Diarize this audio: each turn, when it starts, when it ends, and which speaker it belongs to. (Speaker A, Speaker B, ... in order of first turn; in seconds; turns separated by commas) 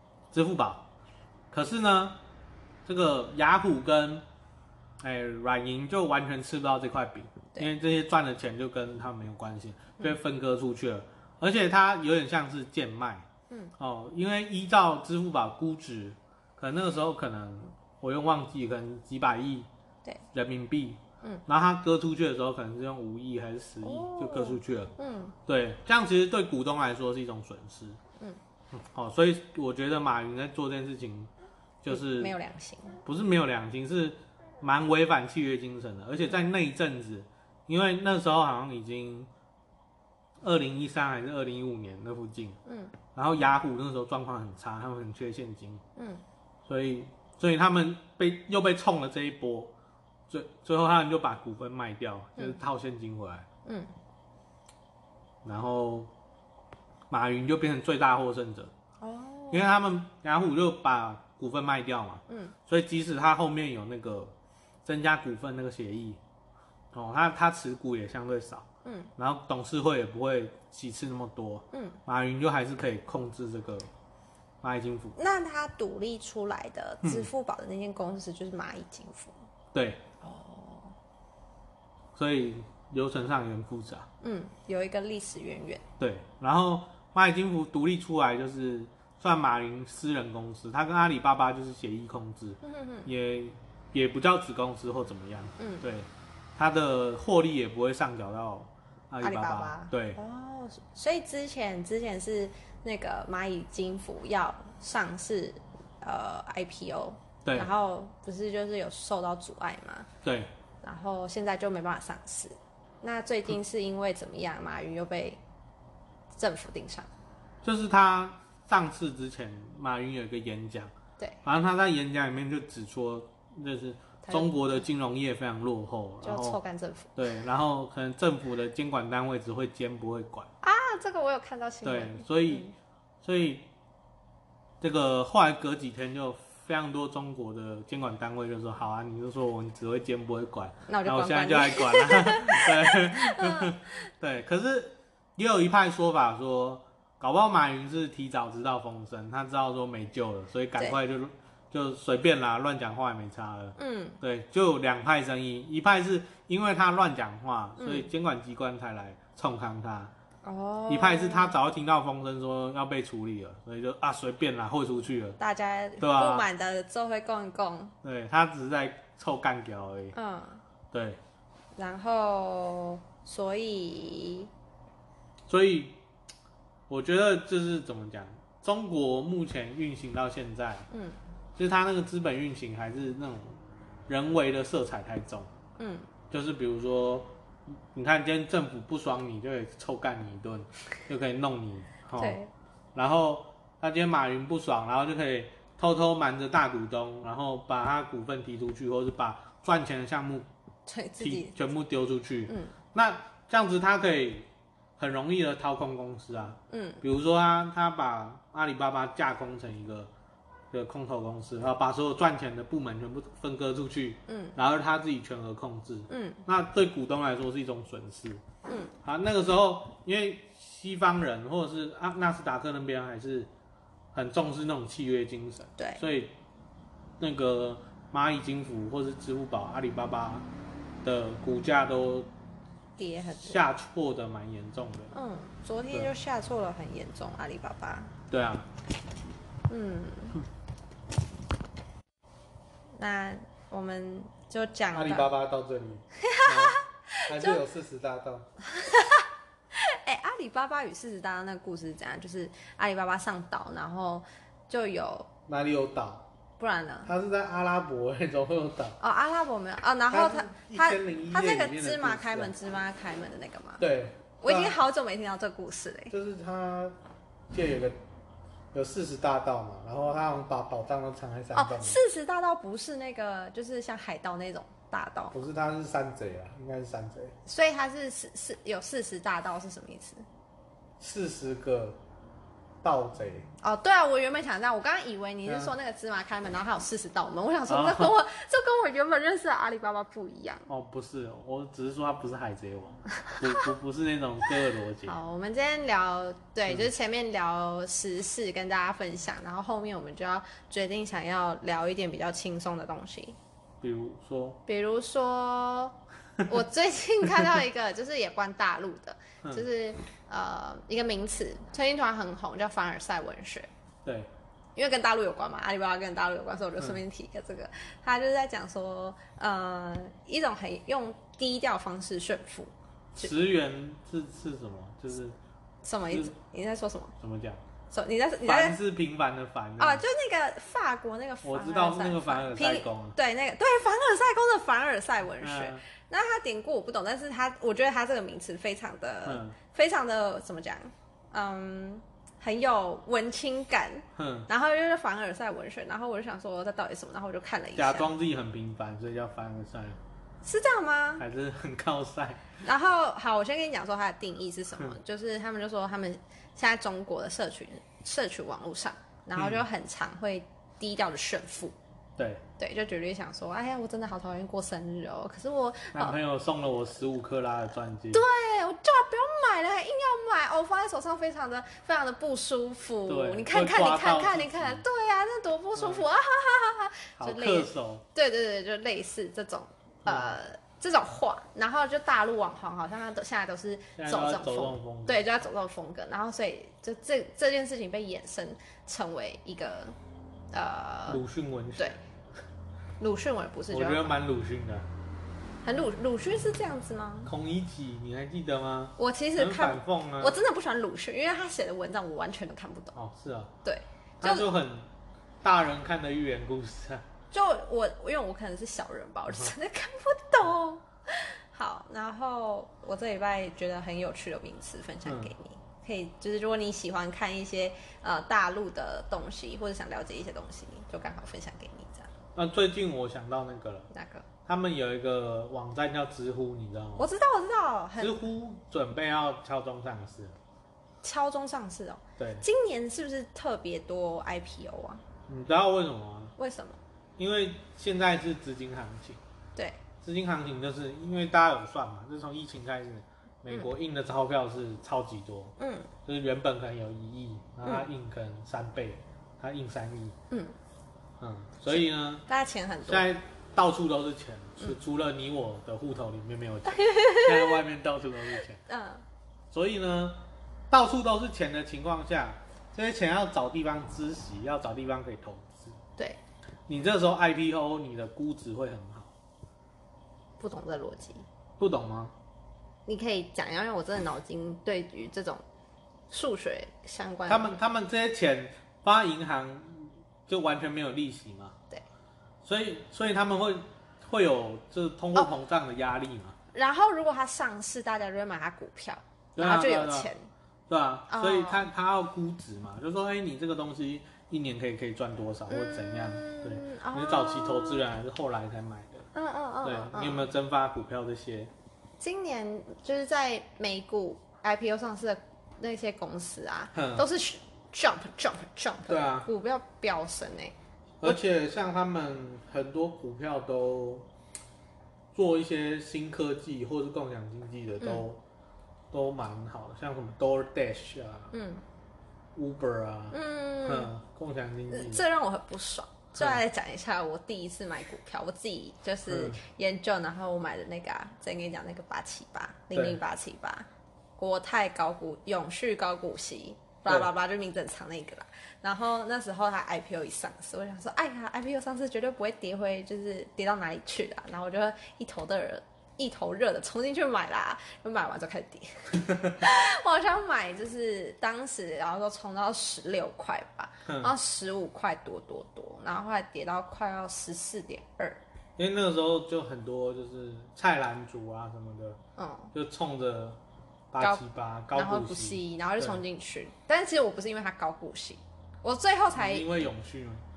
Speaker A: 0.3-0.9, Speaker A: 1.5-2.2, Speaker A: 2.8-4.2, Speaker A: 5.0-13.3, Speaker A: 13.8-19.7, Speaker A: 20.3-24.9, Speaker B: 23.8-25.3, Speaker A: 25.4-28.0, Speaker A: 28.7-31.3, Speaker A: 31.8-32.3, Speaker B: 31.9-33.0, Speaker A: 33.0-39.3, Speaker A: 40.4-42.6, Speaker B: 42.6-42.9, Speaker A: 43.1-45.8, Speaker B: 46.0-46.2, Speaker A: 46.6-49.7, Speaker A: 50.3-53.5, Speaker B: 53.6-53.9, Speaker A: 55.4-56.1, Speaker A: 57.1-58.7, Speaker B: 59.0-59.7, Speaker A: 59.5-64.3, Speaker B: 62.3-62.5, Speaker A: 64.8-66.2, Speaker A: 66.9-73.9, Speaker B: 68.8-69.1, Speaker B: 71.7-72.0, Speaker A: 74.6-75.2, Speaker B: 75.2-79.3, Speaker A: 77.0-77.3, Speaker A: 79.7-80.0, Speaker B: 80.2-80.9, Speaker A: 82.1-84.1, Speaker B: 84.2-85.8, Speaker A: 86.0-100.2, Speaker B: 92.6-93.1, Speaker B: 95.6-95.8, Speaker B: 99.2-110.1, Speaker A: 107.4-107.7, Speaker A: 110.2-110.5, Speaker B: 110.8-115.4, Speaker B: 116.3-117.1, Speaker A: 117.6-120.9, Speaker A: 121.4-126.6, Speaker B: 124.2-124.5, Speaker B: 126.2-127.2, Speaker A: 127.2-130.5, Speaker B: 130.6-132.7, Speaker A: 131.8-132.7, Speaker A: 133.2-133.7, Speaker A: 134.8-160.1, Speaker B: 140.9-144.1, Speaker B: 153.8-154.2, Speaker B: 157.8-158.1, Speaker B: 160.4-161.6, Speaker A: 160.9-165.4, Speaker B: 165.4-167.9, Speaker A: 166.0-166.5, Speaker A: 168.0-170.1, Speaker B: 170.1-170.6, Speaker A: 170.9-171.2, Speaker B: 171.8-174.5, Speaker A: 175.5-176.0, Speaker A: 176.9-180.9, Speaker B: 180.9-181.2, Speaker A: 181.6-185.5, Speaker B: 185.8-186.1, Speaker A: 186.3-187.3, Speaker A: 187.9-192.4, Speaker B: 192.2-192.5, Speaker A: 192.9-200.5, Speaker B: 200.8-201.6, Speaker A: 201.2-210.1, Speaker B: 202.5-202.7, Speaker B: 206.7-207.0, Speaker A: 210.7-218.4, Speaker B: 214.3-214.5, Speaker B: 216.1-216.4, Speaker B: 218.7-218.9, Speaker A: 219.0-223.5, Speaker A: 224.1-226.3, Speaker B: 225.8-226.0, Speaker A: 227.2-230.5, Speaker A: 231.0-232.3, Speaker B: 233.0-233.6, Speaker A: 233.3-235.1, Speaker B: 235.1-238.1, Speaker A: 238.3-238.7, Speaker B: 239.7-240.4, Speaker B: 242.9-245.3, Speaker A: 244.9-248.5, Speaker B: 246.2-247.6, Speaker B: 248.6-255.3, Speaker A: 255.5-256.3, Speaker B: 256.6-257.1, Speaker A: 257.1-259.0, Speaker B: 259.0-263.9, Speaker A: 260.1-262.5, Speaker A: 263.8-264.8, Speaker B: 264.4-266.1, Speaker A: 266.1-267.0, Speaker A: 267.5-268.0, Speaker A: 268.7-272.0, Speaker B: 271.5-275.3, Speaker A: 275.3-277.3, Speaker B: 277.4-280.2, Speaker A: 281.0-282.0, Speaker A: 282.8-283.5, Speaker B: 283.6-290.7, Speaker A: 285.4-285.7, Speaker A: 287.7-288.1, Speaker A: 290.7-295.1, Speaker B: 293.2-293.7, Speaker B: 295.0-303.4, Speaker A: 303.8-304.6, Speaker B: 304.6-313.7, Speaker A: 314.0-314.3, Speaker B: 314.8-323.3, Speaker A: 323.1-325.4, Speaker B: 325.8-327.1, Speaker A: 326.1-326.3, Speaker A: 327.2-327.6, Speaker B: 327.9-328.8, Speaker A: 328.4-330.0, Speaker B: 329.8-348.1, Speaker A: 331.4-333.1, Speaker A: 335.4-335.8, Speaker A: 339.2-339.6, Speaker A: 344.1-344.5, Speaker A: 347.8-350.0, Speaker B: 350.4-351.2, Speaker A: 351.2-352.4, Speaker B: 352.6-361.7, Speaker A: 359.4-359.6, Speaker A: 362.2-362.4, Speaker B: 362.6-366.2, Speaker A: 365.9-368.2, Speaker B: 368.1-389.9, Speaker A: 373.1-374.8, Speaker A: 375.8-376.0, Speaker A: 377.2-378.0, Speaker A: 380.0-380.3, Speaker A: 384.0-385.2, Speaker B: 390.5-391.2, Speaker A: 391.1-392.0, Speaker B: 393.0-394.2, Speaker A: 393.7-394.9, Speaker B: 395.6-397.3, Speaker A: 397.2-400.4, Speaker B: 399.0-402.9, Speaker A: 402.9-403.5, Speaker B: 403.6-404.5, Speaker A: 404.2-404.9, Speaker A: 405.4-407.0, Speaker B: 407.3-422.1, Speaker A: 415.0-415.3, Speaker A: 422.3-423.9, Speaker B: 423.9-424.2, Speaker A: 424.4-427.1, Speaker B: 427.0-428.2, Speaker A: 428.0-430.4, Speaker B: 431.0-435.0, Speaker A: 432.2-432.4, Speaker A: 435.3-436.3, Speaker B: 436.4-436.8, Speaker A: 437.2-439.2, Speaker A: 440.0-445.5, Speaker B: 445.6-445.9, Speaker A: 446.1-450.1, Speaker B: 450.3-450.5, Speaker A: 451.2-452.3, Speaker B: 452.2-453.1, Speaker A: 452.8-458.6, Speaker B: 456.7-457.6, Speaker B: 458.6-459.0, Speaker A: 459.5-465.8, Speaker A: 466.7-469.1, Speaker B: 470.4-471.2, Speaker A: 471.6-472.1, Speaker B: 472.9-475.4, Speaker B: 476.1-477.6, Speaker A: 477.3-481.6, Speaker A: 482.4-486.4, Speaker B: 486.5-490.3, Speaker A: 489.4-490.1, Speaker A: 490.7-499.1, Speaker B: 491.1-491.7, Speaker B: 495.5-497.8, Speaker B: 499.1-500.3, Speaker A: 499.6-501.5, Speaker B: 502.0-510.5, Speaker A: 506.7-507.1, Speaker A: 508.9-509.3, Speaker A: 511.0-514.1, Speaker A: 515.1-518.2, Speaker A: 518.9-521.3, Speaker B: 521.3-521.6, Speaker A: 522.3-525.0, Speaker B: 523.1-523.9, Speaker B: 524.7-558.2, Speaker A: 529.1-529.4, Speaker A: 532.7-533.0, Speaker A: 549.1-549.4, Speaker A: 553.9-554.1, Speaker A: 558.6-562.0, Speaker B: 562.2-562.5, Speaker A: 562.5-563.4, Speaker A: 563.9-566.0, Speaker B: 564.0-569.7, Speaker A: 569.1-570.2